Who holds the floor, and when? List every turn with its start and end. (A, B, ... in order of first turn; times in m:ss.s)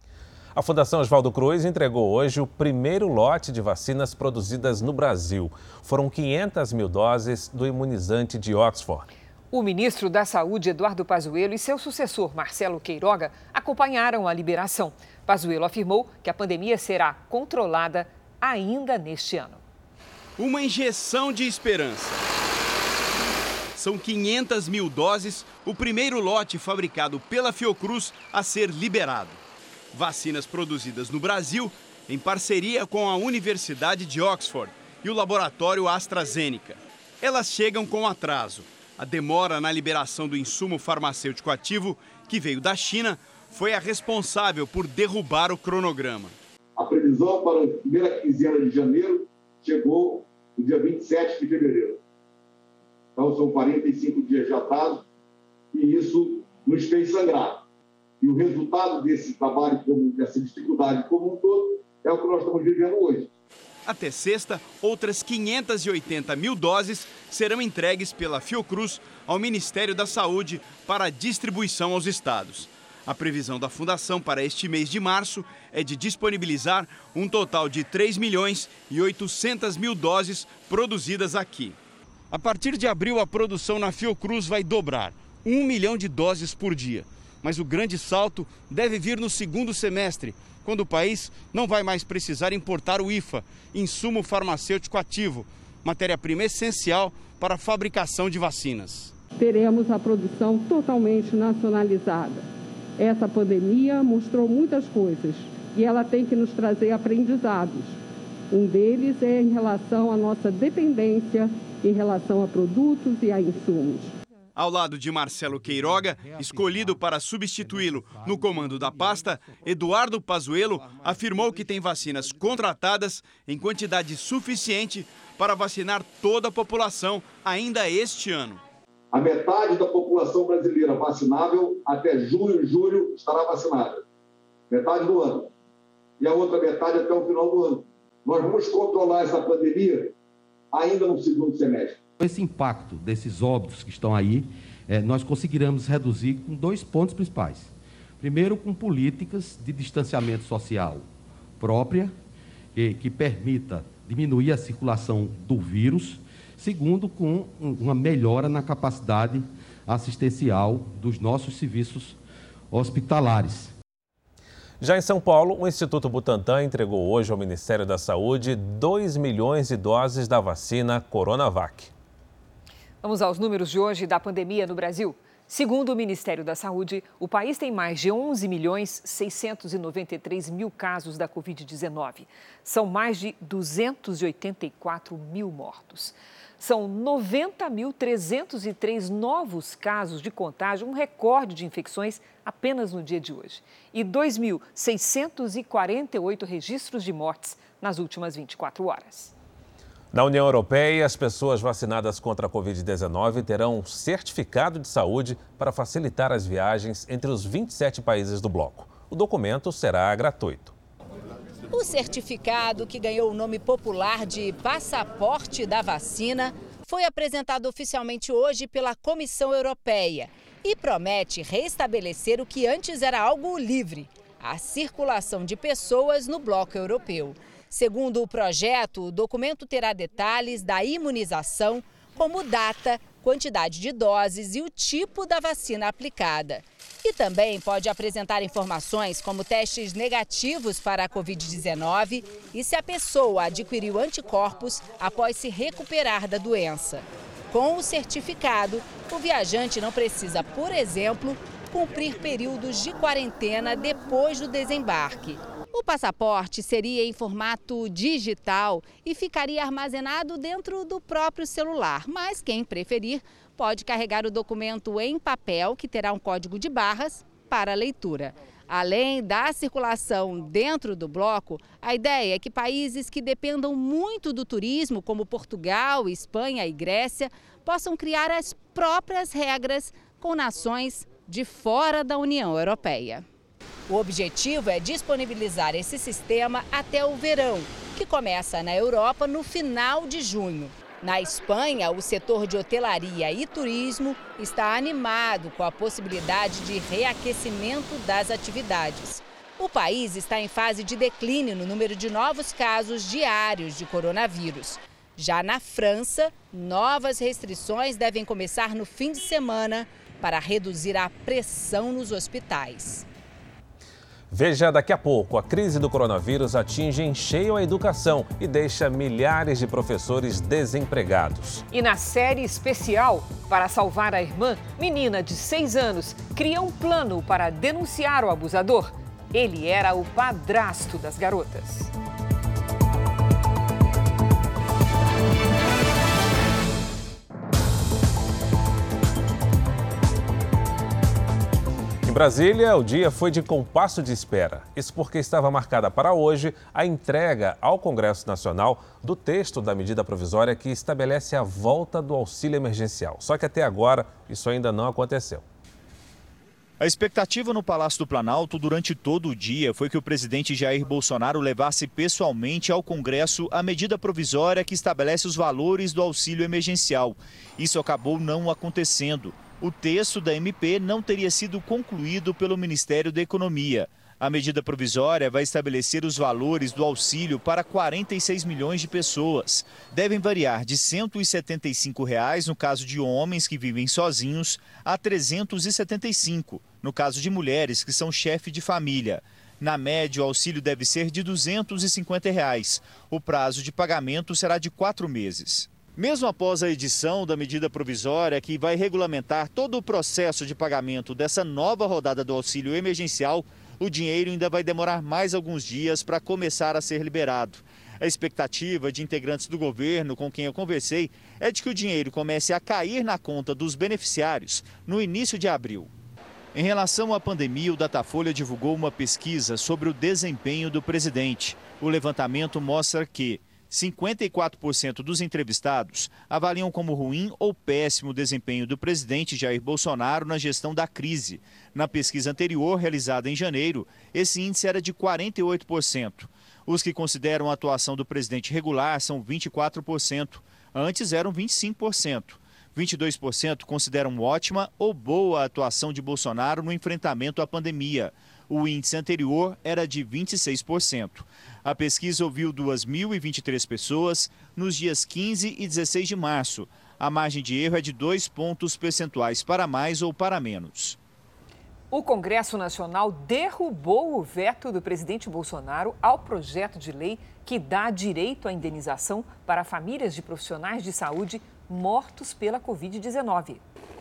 0:00.6-0:09.1 A
0:09.5-0:19.6 B
0:20.4-0:22.2 C
0:23.8-0:29.4 C
0:29.9-0:46.4 C
0:46.8-0:52.0 D
0:53.2-0:55.0 D
0:55.7-0:57.6 D
0:58.2-1:03.3 D
1:03.9-1:21.8 C
1:22.3-1:39.1 C
1:39.4-1:42.5 E
1:43.0-1:48.0 E
1:48.5-1:54.2 E
1:54.6-2:08.6 C
2:09.1-2:14.0 D
2:14.7-2:15.5 D
2:16.2-2:20.1 D
2:20.7-2:22.0 D
2:22.2-2:31.1 F
2:31.6-2:32.2 F
2:32.8-2:42.2 F
2:42.7-2:43.7 F
2:44.8-2:51.9 A
2:53.0-3:19.3 B
3:20.1-3:30.8 A
3:31.7-4:43.2 G
4:43.9-5:13.1 G
5:14.3-5:21.6 A
5:21.7-5:31.9 B
5:42.0-5:55.4 A
5:56.8-6:55.9 H
6:56.5-7:41.0 H
7:41.9-7:53.6 B